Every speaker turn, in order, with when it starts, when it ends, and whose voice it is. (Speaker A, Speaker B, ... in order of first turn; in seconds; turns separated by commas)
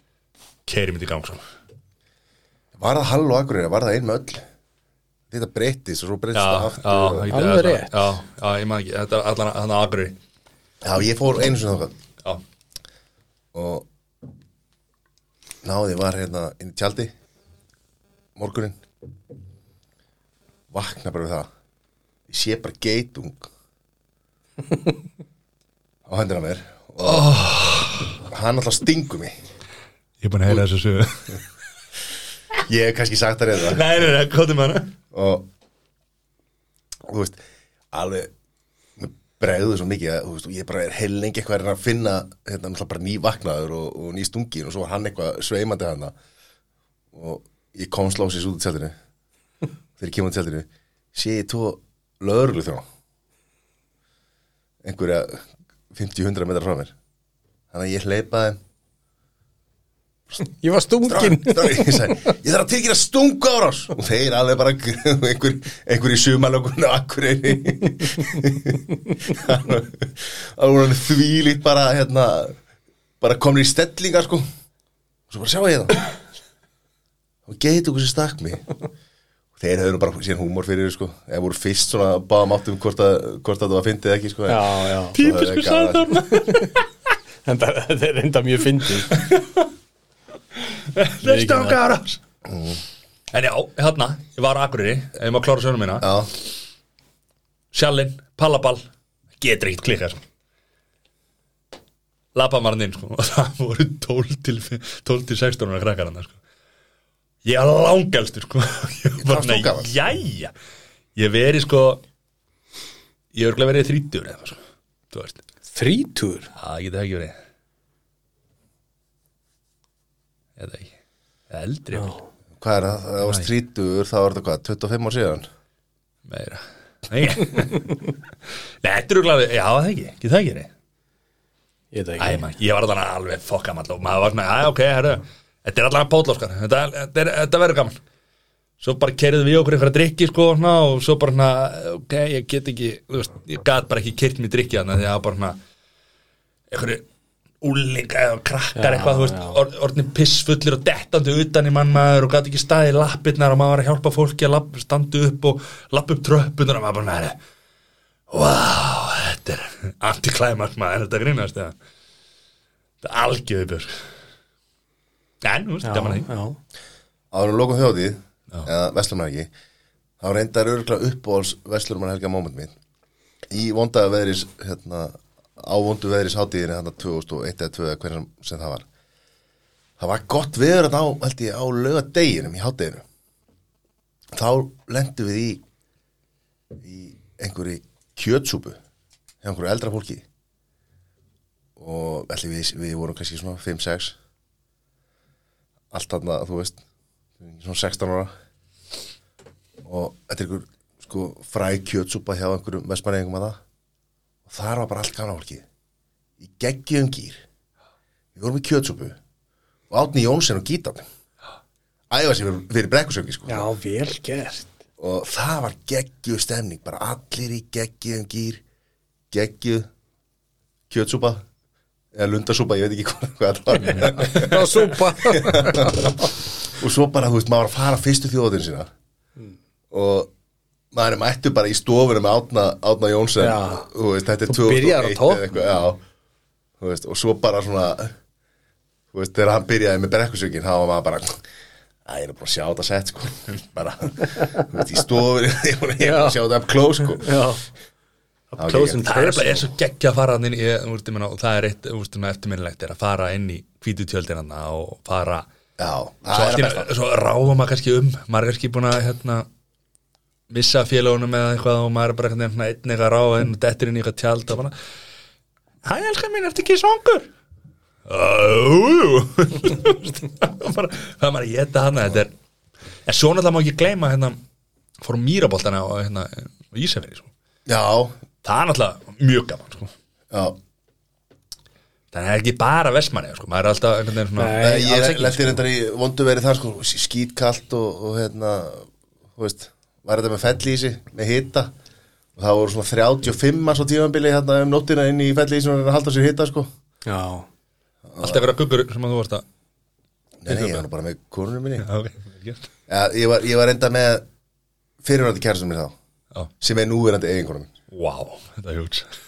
Speaker A: 0.7-1.4, Speaker B: 2.8-4.4, Speaker B: 5.3-7.3, Speaker A: 6.3-10.2, Speaker C: 7.3-8.0, Speaker B: 10.8-11.9, Speaker B: 13.5-13.9, Speaker B: 15.6-17.1, Speaker B: 18.4-18.8, Speaker B: 20.7-21.5, Speaker B: 22.3-23.5, Speaker B: 26.1-27.3, Speaker A: 27.0-28.2, Speaker B: 28.3-29.4, Speaker A: 30.2-31.4, Speaker B: 32.7-34.0, Speaker A: 33.6-34.9, Speaker B: 35.1-35.5, Speaker B: 37.0-37.4, Speaker B: 37.9-38.3, Speaker B: 39.0-46.1, Speaker B: 47.1-48.9, Speaker B: 50.0-52.8, Speaker B: 54.8-56.9, Speaker B: 57.7-58.6, Speaker C: 60.4-62.3, Speaker B: 61.0-72.6, Speaker B: 73.2-74.5, Speaker B: 75.3-76.0, Speaker B: 77.5-78.6, Speaker B: 79.6-86.2, Speaker C: 84.5-85.2, Speaker A: 85.1-86.7, Speaker C: 86.2-86.8, Speaker C: 87.5-89.2, Speaker A: 89.1-89.7, Speaker A: 90.6-92.2, Speaker C: 91.2-91.8, Speaker B: 92.5-92.8, Speaker A: 93.3-96.2, Speaker B: 96.0-96.3, Speaker A: 97.7-98.8, Speaker A: 99.4-100.2, Speaker A: 102.3-106.4, Speaker A: 107.4-110.5, Speaker B: 109.2-109.9, Speaker A: 111.2-112.0, Speaker A: 113.3-114.6, Speaker A: 115.1-115.4, Speaker C: 115.7-116.5, Speaker A: 116.5-117.4, Speaker A: 120.6-120.9, Speaker A: 121.5-122.1, Speaker B: 122.6-125.5, Speaker A: 123.3-123.5, Speaker A: 126.3-128.1, Speaker A: 128.8-130.7, Speaker C: 131.9-132.4, Speaker A: 132.2-138.0, Speaker A: 138.8-145.6, Speaker A: 146.7-147.0, Speaker A: 147.6-157.4, Speaker C: 148.7-149.6, Speaker A: 158.3-161.7, Speaker A: 163.0-164.0, Speaker A: 165.4-166.3, Speaker C: 165.8-166.6, Speaker B: 167.3-169.5, Speaker B: 170.2-172.7, Speaker B: 173.5-178.8, Speaker B: 180.0-183.0, Speaker B: 184.3-185.6, Speaker B: 186.8-188.8, Speaker B: 189.4-190.2, Speaker B: 191.8-194.2, Speaker B: 195.9-196.8, Speaker B: 197.4-198.3, Speaker B: 199.8-203.6, Speaker B: 204.5-205.6, Speaker B: 206.4-207.4, Speaker B: 208.4-209.2, Speaker B: 209.9-211.1, Speaker B: 212.1-213.7, Speaker C: 213.5-214.7, Speaker B: 215.0-218.6, Speaker B: 219.3-219.9, Speaker B: 220.9-221.4, Speaker B: 222.1-228.9, Speaker C: 224.0-226.2, Speaker B: 229.9-230.3, Speaker B: 230.9-236.0, Speaker C: 233.4-233.9, Speaker C: 234.5-235.5, Speaker B: 236.8-238.1, Speaker B: 239.1-241.4, Speaker B: 242.1-247.4, Speaker C: 246.0-246.4, Speaker C: 247.1-247.6, Speaker C: 248.5-249.7, Speaker B: 248.6-249.0, Speaker A: 249.0-255.4, Speaker B: 255.8-256.9, Speaker A: 256.3-259.4, Speaker A: 260.5-264.7, Speaker A: 265.8-267.3, Speaker A: 268.1-272.3, Speaker A: 273.1-274.4, Speaker A: 275.0-277.3, Speaker B: 277.7-278.2, Speaker A: 278.4-279.9, Speaker B: 280.3-280.6, Speaker A: 282.1-284.6, Speaker C: 284.4-285.5, Speaker B: 284.6-291.7, Speaker B: 292.4-296.7, Speaker C: 297.1-297.5, Speaker B: 298.1-298.4, Speaker A: 298.2-299.4, Speaker B: 300.4-301.9, Speaker A: 300.5-300.8, Speaker A: 301.8-302.7, Speaker B: 302.9-304.2, Speaker B: 305.0-305.9, Speaker B: 306.6-307.7, Speaker A: 307.9-309.1